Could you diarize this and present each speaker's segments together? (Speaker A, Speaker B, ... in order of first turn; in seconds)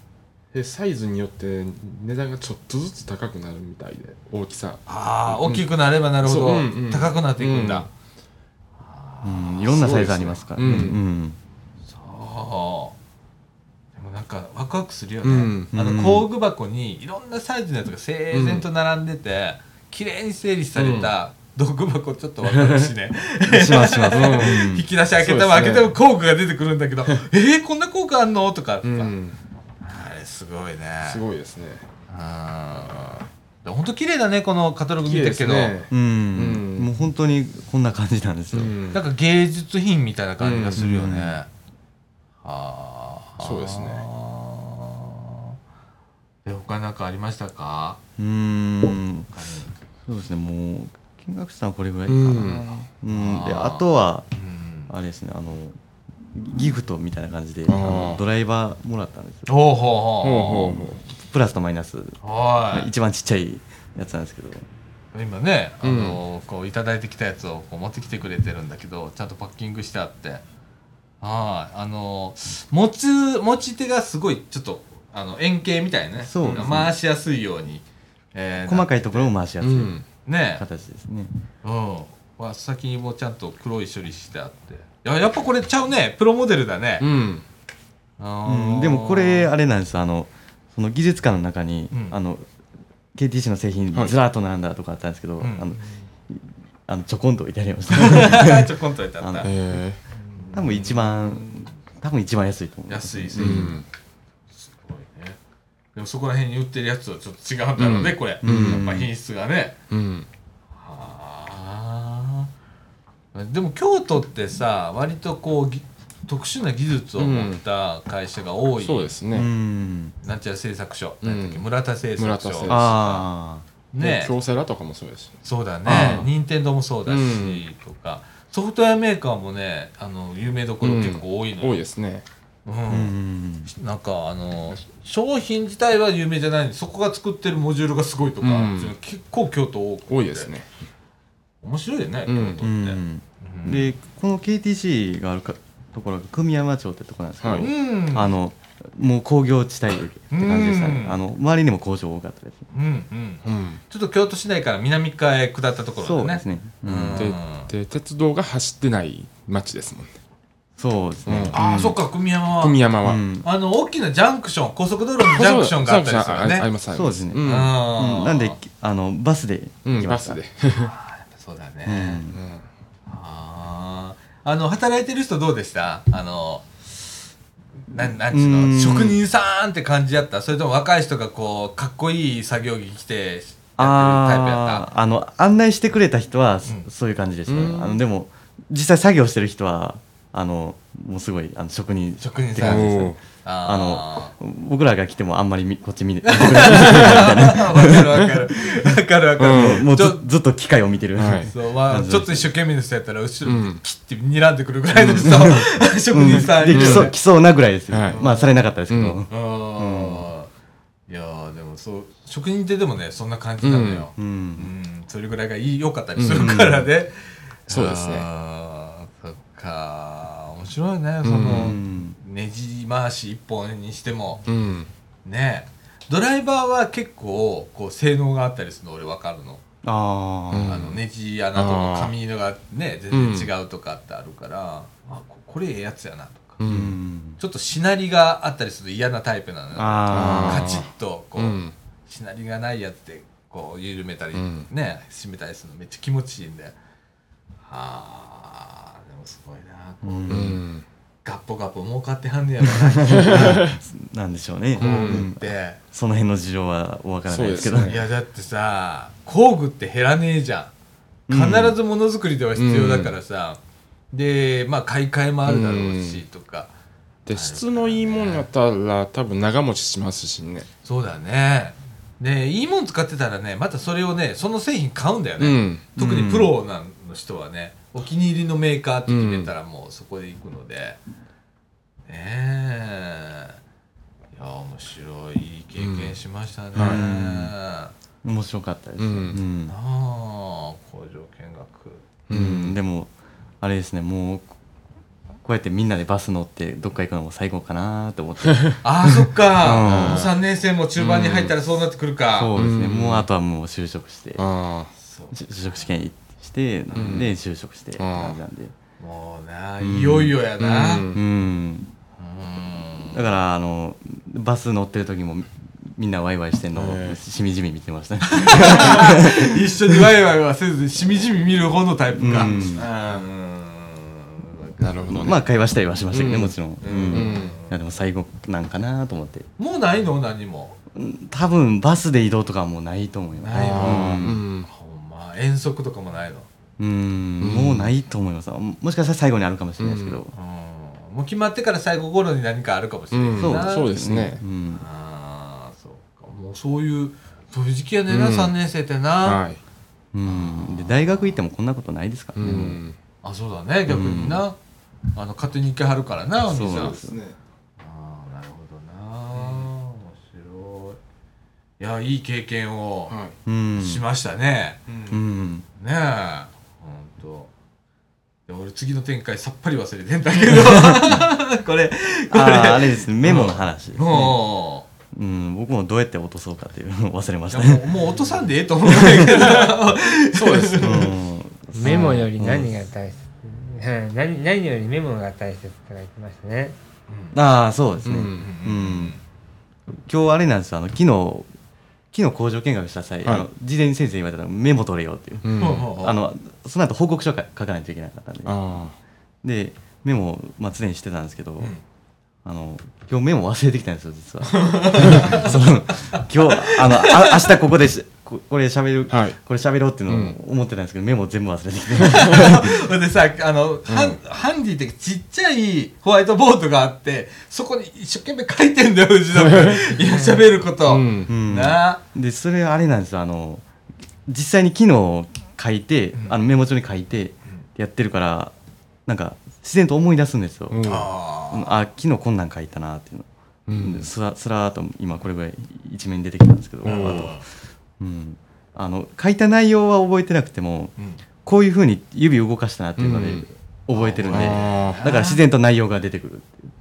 Speaker A: 0.5-5.7, 6.2-7.9, 9.7-11.0, 15.2-15.7, 18.3-18.6, 20.8-21.1, 24.1-25.9, 28.8-29.4, 31.0-31.9, 35.0-36.9, 38.5-39.0, 40.4-40.8, 43.4-44.0, 52.1-52.8, 57.7-58.2, 60.2-61.0, 65.8-66.2, 76.4-76.8, 79.6-80.0, 87.0-87.4, 99.4-100.0, 103.4-103.8, 107.8-108.8, 109.9-110.3, 117.2-117.6, 118.8-119.5, 121.2-121.6, 122.2-123.0, 124.0-126.3, 127.1-127.6, 130.8-132.2, 138.4-138.9, 140.1-140.7, 142.3-142.6, 147.4-147.7, 153.4-153.8, 157.2-160.1, 161.2-161.9, 162.6-163.2, 165.3-167.7, 169.8-170.9, 172.3-172.6, 187.5-188.0, 192.6-193.2, 196.7-197.2, 199.4-199.8, 201.2-201.5, 203.4-203.8, 206.7-207.1, 207.9-208.2, 208.9-209.2, 213.6-214.1, 216.2-216.5, 217.7-218.2, 221.2-221.8, 224.4-224.9, 230.5-231.0, 231.5-232.1, 233.1-233.5, 236.6-236.9, 240.1-241.7, 244.3-244.7, 250.3-250.8, 253.1-253.8, 254.8-255.2, 257.3-258.0, 262.6-263.1, 265.4-266.2, 267.2-270.7, 275.4-276.0, 279.1-279.5, 285.8-286.1, 286.7-287.0, 289.0-289.4, 292.3-292.8, 299.7-300.3, 301.0-301.5, 302.6-303.3, 304.4-304.9, 306.9-307.3, 308.0-308.4, 310.6-311.2, 316.7-317.2, 322.3-323.2, 324.8-325.4, 326.1-327.6, 333.6-334.7, 337.4-337.9, 339.8-340.2, 343.1-344.4, 348.1-348.5, 349.2-349.6, 352.4-352.9, 356.6-357.4, 359.3-359.7, 363.1-363.4, 364.9-365.2, 379.4-379.7, 380.3-381.1, 388.0-388.5, 395.4-395.9, 398.4-398.9, 409.1-409.4, 410.1-410.4, 413.9-414.2, 419.3-420.0, 420.9-421.3, 430.7-431.1, 433.7-434.1, 436.8-437.3, 443.0-443.4, 444.2-445.0
Speaker B: 4.9-7.9, 8.8-10.3, 11.8-12.9, 13.9-29.1, 29.8-31.2, 32.1-35.7, 38.9-41.5, 42.4-45.3, 46.4-48.0, 49.3-49.7, 53.1-54.9, 59.5-60.8, 62.2-62.9, 65.1-70.4, 71.2-79.3, 80.2-80.6, 81.6-87.1, 88.2-89.5, 91.9-92.2, 95.4-95.9, 97.9-99.5, 100.3-101.7, 102.9-103.8, 104.5-105.4, 105.9-109.8, 110.8-112.5, 113.3-119.1, 120.2-123.2, 123.9-124.3, 125.4-131.8, 132.7-133.1, 133.7-140.5, 141.6-143.9, 147.6-148.3, 150.3-151.2, 152.7-157.7, 161.5-162.8, 163.4-166.7, 167.4-168.6, 170.7-172.2, 173.1-177.1, 177.9-184.9, 192.2-194.3, 196.2-200.2, 201.5-207.2, 208.1-208.5, 209.3-210.5, 211.1-217.2, 217.7-224.4, 225.2-229.6, 230.7-236.6, 237.4-246.8, 247.6-250.6, 251.2-253.7, 254.8-255.8, 257.8-260.7, 261.3-263.6, 264.1-266.7, 267.3-268.5, 270.8-281.0, 282.1-283.6, 284.3-287.9, 289.7-292.1, 298.8-302.5, 305.0-305.7, 309.0-311.1, 312.2-313.3, 318.3-325.2, 326.8-327.8, 329.6-330.8, 333.4-336.5, 340.3-343.9, 344.7-349.4, 350.2-351.4, 353.2-354.6, 355.1-357.0, 357.8-361.0, 361.8-363.1, 363.8-364.8, 365.8-367.5, 368.5-374.9, 377.5-381.1, 387.1-387.4, 388.3-389.2, 395.6-396.2, 404.4-407.5, 412.0-422.0, 426.1-426.4, 430.8-431.8, 436.8-437.4, 443.9-445.4
Speaker C: 9.2-11.4, 15.7-16.3, 23.4-24.9, 35.9-38.7, 40.8-41.4, 48.2-49.3, 50.0-54.3, 54.9-55.8, 56.3-59.5, 61.1-62.2, 62.7-64.7, 76.2-76.9, 78.6-79.9, 80.6-81.3, 88.4-92.4, 93.1-98.7, 99.2-99.5, 100.5-103.8, 108.4-109.1, 119.3-120.1, 122.7-123.6, 125.8-126.3, 132.9-133.7, 142.6-152.6, 156.0-157.3, 160.8-161.9, 163.0-163.4, 166.9-170.4, 171.8-172.4, 177.9-179.2, 183.8-198.3, 199.5-202.5, 205.0-210.3, 214.1-214.7, 216.3-216.9, 221.4-222.2, 229.8-230.9, 236.7-237.4, 239.7-240.8, 250.0-250.6, 252.7-258.0, 261.3-261.7, 276.0-276.5, 286.8-287.5, 288.2-289.7, 292.3-294.5, 295.4-300.3, 302.3-304.4, 305.3-308.7, 309.8-310.4, 311.1-311.9, 313.1-319.5, 322.1-322.9, 325.1-329.5, 330.9-334.4, 336.8-340.3, 343.4-344.8, 350.1-352.8, 353.9-354.4, 356.5-357.2, 363.4-364.0, 365.1-365.6, 370.5-371.2, 372.3-374.4, 375.1-377.9, 378.9-379.5, 380.8-382.7, 387.3-389.1, 390.1-391.5, 392.1-398.6, 399.4-401.7, 402.4-412.7, 421.3-423.6, 424.3-428.5, 429.1-430.9, 431.5-433.3, 433.8-437.4, 438.0-446.7
Speaker D: 381.7-386.8